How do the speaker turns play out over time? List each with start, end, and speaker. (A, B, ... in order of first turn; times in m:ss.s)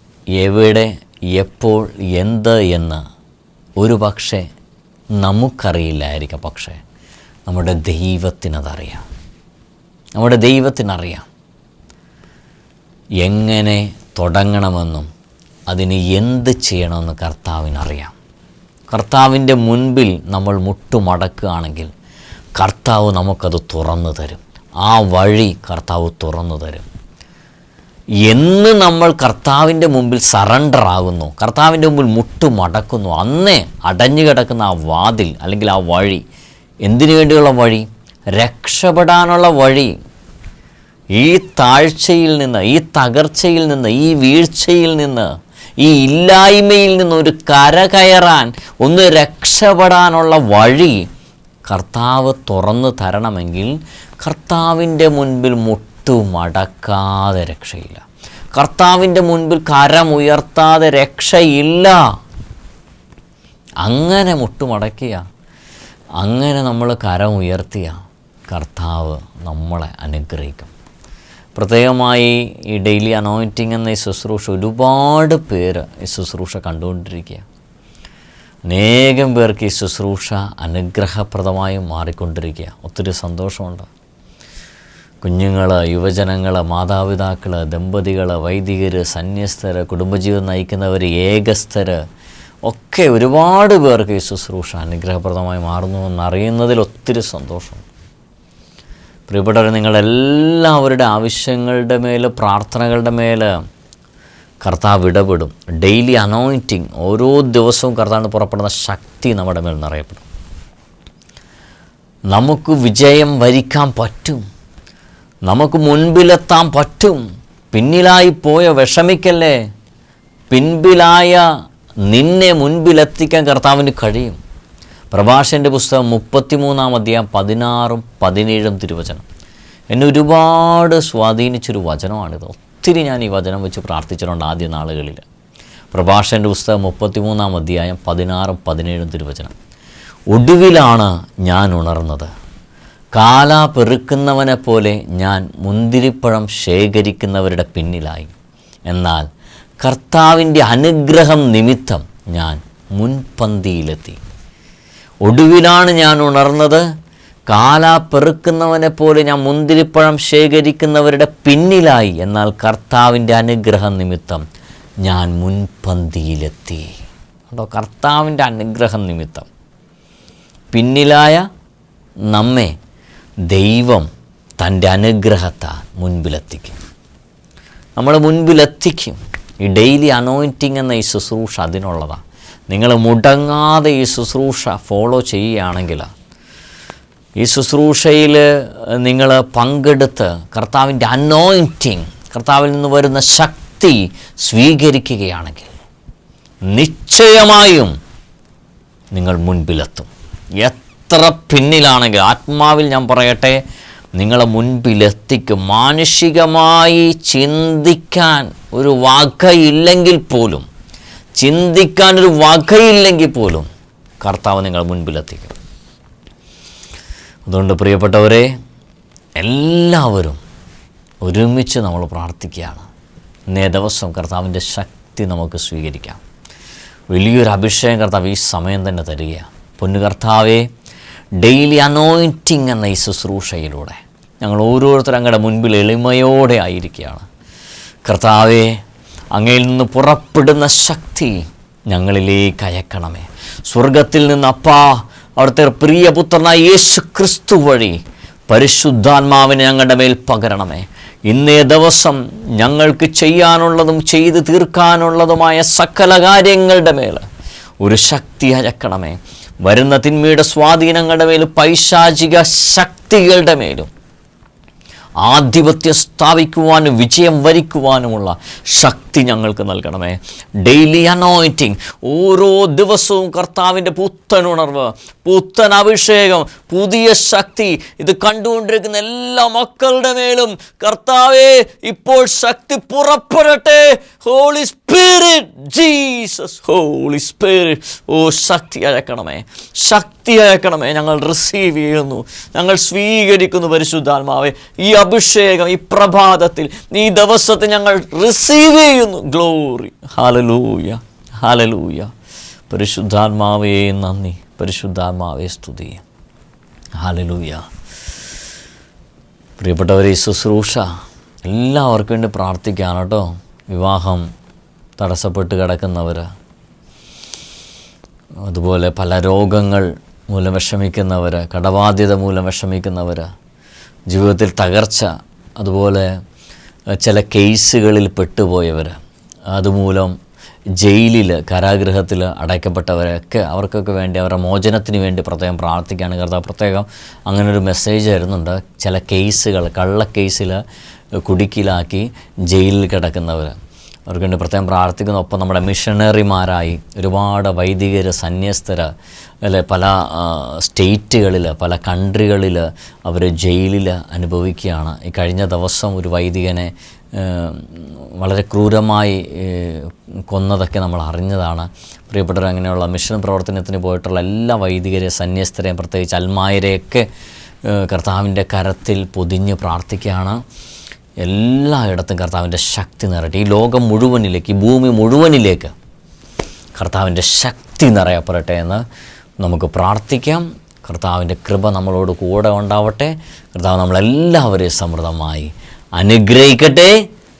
0:00.4-0:03.0 A
0:03.8-0:04.4 A
0:05.2-0:06.8 A
0:07.4-0:09.0 A
0:10.2-0:11.3 A
0:13.2-0:15.1 A
0:15.7-0:18.1 A
0:18.9-0:21.9 A
0:22.6-0:26.8 A
0:28.2-0:36.2 A
0:36.8-0:40.0 A
0:41.2-0:51.1 A
0:51.6-0:58.0 A
0:58.5-1:02.0 A
1:03.8-1:05.2 A
1:06.2-1:08.0 A
1:08.5-1:10.7 A
1:11.5-1:17.4 A
1:18.7-1:23.9 A
1:25.2-1:32.0 A
1:32.7-1:37.8 A
1:39.3-1:43.5 A
1:44.6-1:50.2 A
1:52.3-1:54.4 A
1:55.4-1:57.2 A
1:57.7-1:59.6 A
2:00.5-2:01.5 A
2:02.1-2:04.4 A
2:05.1-2:09.2 A
2:09.9-2:15.2 A
2:15.9-2:19.5 A
2:20.3-2:22.3 A
2:23.1-2:28.3 A
2:28.9-2:29.3 A
2:29.8-2:34.2 A
2:35.2-2:36.9 A
2:37.5-2:44.4 A
2:45.0-2:47.0 A
2:47.5-2:49.5 A
2:50.7-2:51.4 A
2:52.3-2:52.7 A
2:53.5-2:56.8 A
2:58.0-3:06.1 A
3:07.4-3:15.7 A
3:16.7-3:17.9 A
3:19.1-3:23.6 A
3:24.2-3:30.6 A
3:31.4-3:33.7 A
3:34.2-3:35.5 A
3:37.4-3:38.5 A
3:39.4-3:40.4 A
3:41.2-3:42.8 A
3:43.5-3:46.2 A
3:47.1-3:50.7 A
3:51.4-3:57.2 A
3:58.0-3:58.8 A
3:59.3-4:17.2 A
4:17.8-4:23.9 A
4:25.2-5:02.1 A
5:02.7-5:06.0 A
5:07.0-5:07.7 A
5:09.6-5:10.9 A
5:11.4-5:14.3 A
5:15.0-5:16.3 A
5:18.4-5:23.3 A
5:24.1-5:26.1 A
5:27.0-5:29.0 A
5:29.5-5:30.2 A
5:30.8-5:40.6 A
5:41.2-5:43.6 A
5:44.1-5:48.9 A
5:49.4-6:07.1 A
6:07.6-6:10.4 A
6:11.2-6:15.7 A
6:16.8-6:18.8 A
6:19.4-6:27.0 A